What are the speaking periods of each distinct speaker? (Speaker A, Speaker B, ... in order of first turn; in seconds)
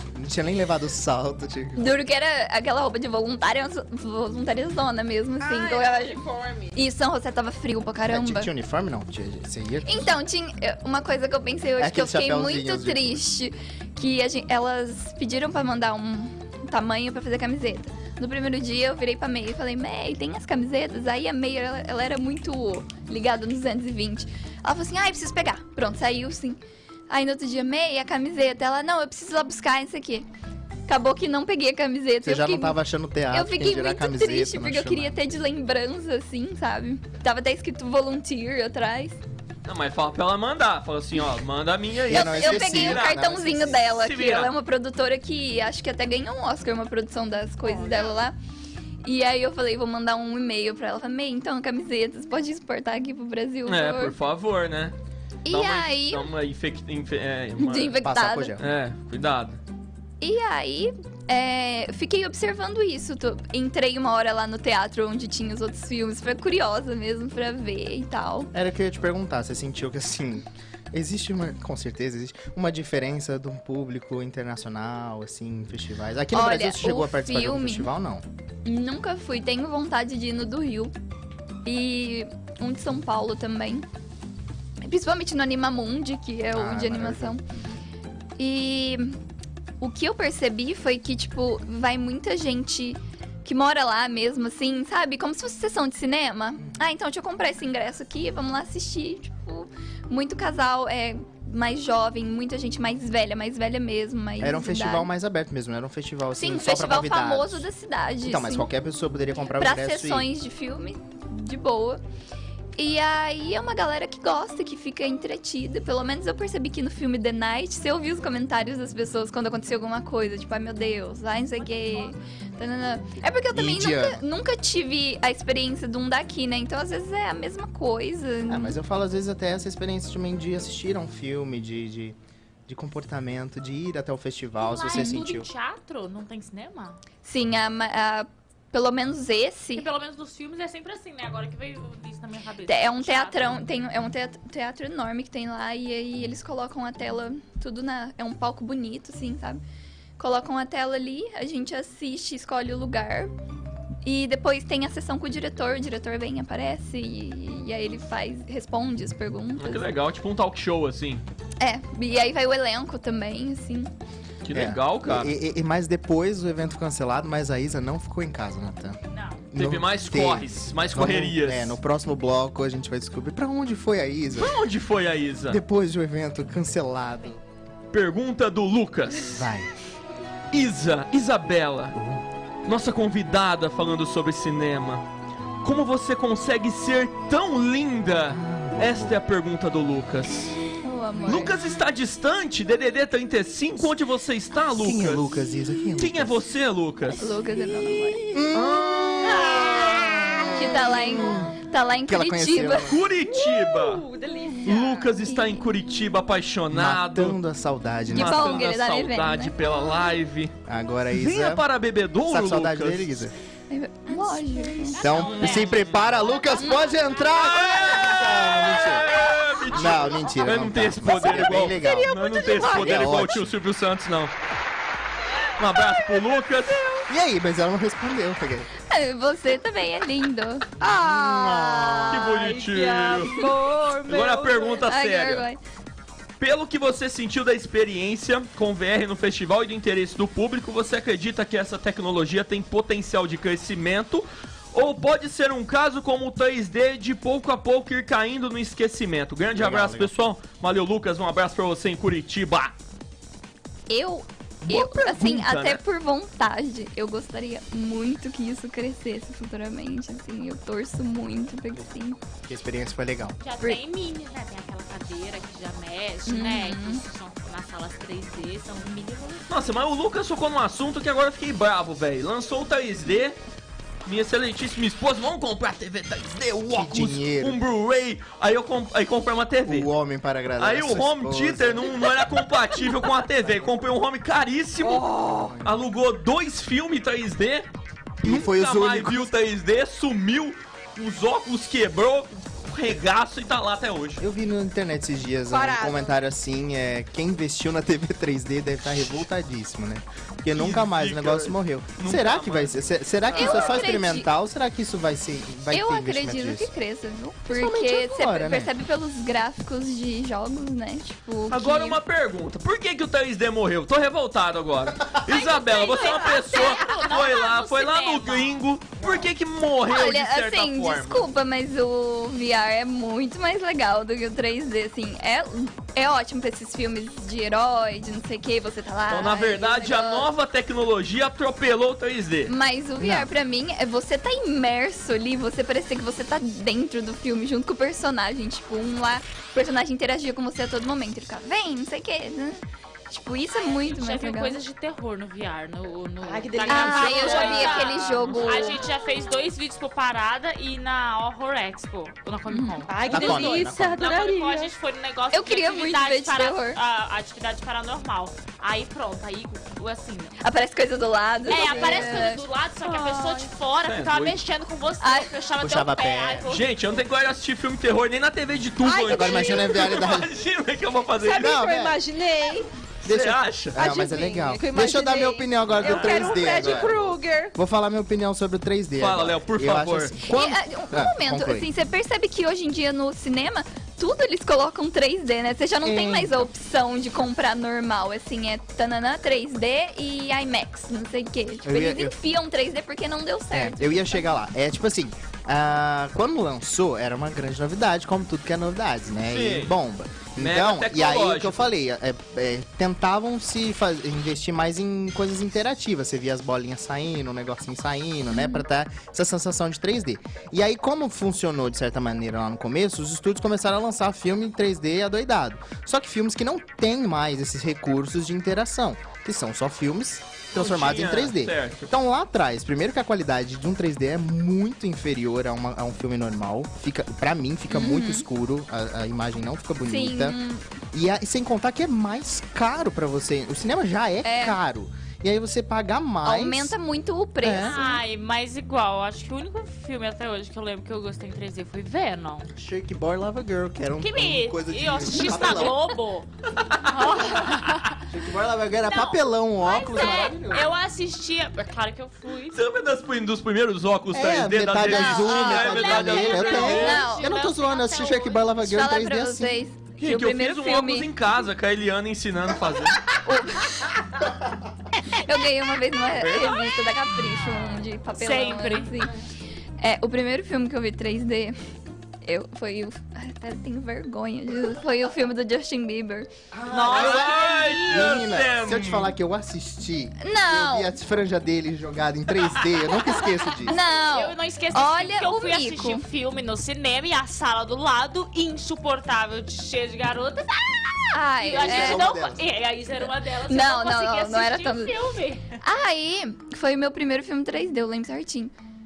Speaker A: 0.1-2.0, 8.1-10.2, 11.8-13.2, 32.2-35.2, 42.1-44.0, 58.0-58.6, 68.5-78.2, 86.5-87.8, 104.4-107.7, 108.2-110.3, 123.5-124.2, 128.5-135.5, 164.5-169.0, 169.5-174.6, 175.5-177.4, 179.3-179.7, 181.9-182.2, 188.3-189.2, 194.7-196.4, 198.3-203.0, 206.7-208.7, 210.7-211.7, 212.3-213.3, 215.0-219.2, 219.7-223.5, 227.1-228.7, 230.8-232.3, 249.6-250.1, 262.5-263.4, 276.7-277.6, 279.7-282.2, 285.3-285.8, 288.2-289.3, 294.2-306.7, 307.5-308.7, 333.0-333.3, 353.1-354.0, 365.6-366.5, 369.0-370.3, 371.4-372.0, 373.1-381.7, 385.8-386.5, 391.6-392.2, 393.5-430.4, 430.9-436.8, 437.4-437.8, 442.6-445.9, 448.0-450.8, 454.1-459.6, 476.5-483.8, 491.4-492.4
Speaker B: 1.8-8.5, 9.9-26.6, 27.1-30.3, 30.9-32.8, 33.3-39.2, 42.1-48.4, 49.0-54.1, 55.5-56.3, 57.6-58.6, 60.2-68.5, 76.3-77.9, 78.7-80.9, 81.7-83.9, 84.8-87.4, 88.4-89.2, 89.8-105.1, 106.4-108.7, 109.6-112.0, 112.8-128.8, 134.9-135.2, 137.2-139.9, 142.7-149.6, 150.2-153.3, 154.0-159.9, 161.6-163.9, 190.8-191.6, 197.2-198.2, 200.5-202.9, 205.2-205.7, 208.1-209.9, 213.7-215.0, 216.6-216.9, 228.9-230.7, 234.9-235.6, 253.9-262.2, 266.3-267.0, 303.4-304.3, 305.7-312.0, 319.9-330.3, 332.5-344.6, 346.7-348.8, 352.5-352.9, 355.3-356.8, 360.4-362.4, 365.0-365.3, 380.3-394.3, 408.3-408.6, 427.7-428.3, 429.8-430.6, 434.2-434.6, 436.2-438.0, 445.2-445.5, 454.9-455.5, 456.6-457.3, 458.6-461.1, 463.2-463.9, 465.1-469.1, 469.8-471.6, 472.2-476.3, 480.2-480.9, 483.7-486.0, 491.1-492.1, 493.5-494.9, 495.6-498.5
Speaker C: 5.4-6.8, 47.6-48.2, 197.3-198.4, 199.2-201.5, 203.2-205.2, 214.1-215.1, 217.8-220.5, 221.1-223.0, 225.6-227.1, 230.8-234.9, 284.8-285.6, 295.5-296.2, 316.6-317.0, 346.2-348.1, 352.9-354.7, 361.5-362.3, 362.8-363.5, 368.8-370.1, 371.2-372.7, 373.8-377.6
Speaker D: 39.6-43.2, 43.8-44.5, 53.7-55.0, 55.5-58.0, 58.6-59.6, 159.6-161.2, 164.4-165.3, 169.6-171.8, 174.4-175.6, 177.9-179.5, 180.5-182.0, 182.7-185.0, 185.6-190.6, 191.2-195.3, 195.9-197.3, 198.5-200.2, 202.7-204.0, 204.7-207.4, 208.1-210.5, 211.1-213.2, 215.2-216.2, 217.3-224.3, 225.6-226.8, 232.1-233.4, 234.1-235.5, 236.4-252.8, 254.7-255.8, 269.5-273.4, 274.1-279.9, 280.6-285.1, 285.6-287.7, 288.2-294.2, 300.5-303.9, 311.5-321.3, 329.1-332.5, 348.2-348.5, 363.8-364.4, 366.5-371.6, 373.0-373.8, 375.8-376.9, 379.0-380.2, 399.3-399.8, 400.4-401.6, 420.5-421.9, 446.6-447.0, 452.5-457.0, 460.0-463.1, 466.1-466.7, 476.9-479.1
Speaker E: 121.6-122.1, 134.6-137.0, 139.8-143.6, 169.1-169.5, 214.9-217.5, 263.4-269.5, 315.3-318.7, 343.5-360.4, 361.5-367.1, 437.6-442.5, 444.0-448.1, 448.8-452.7, 455.3-458.6, 468.2-469.1, 476.7-478.4, 483.0-495.6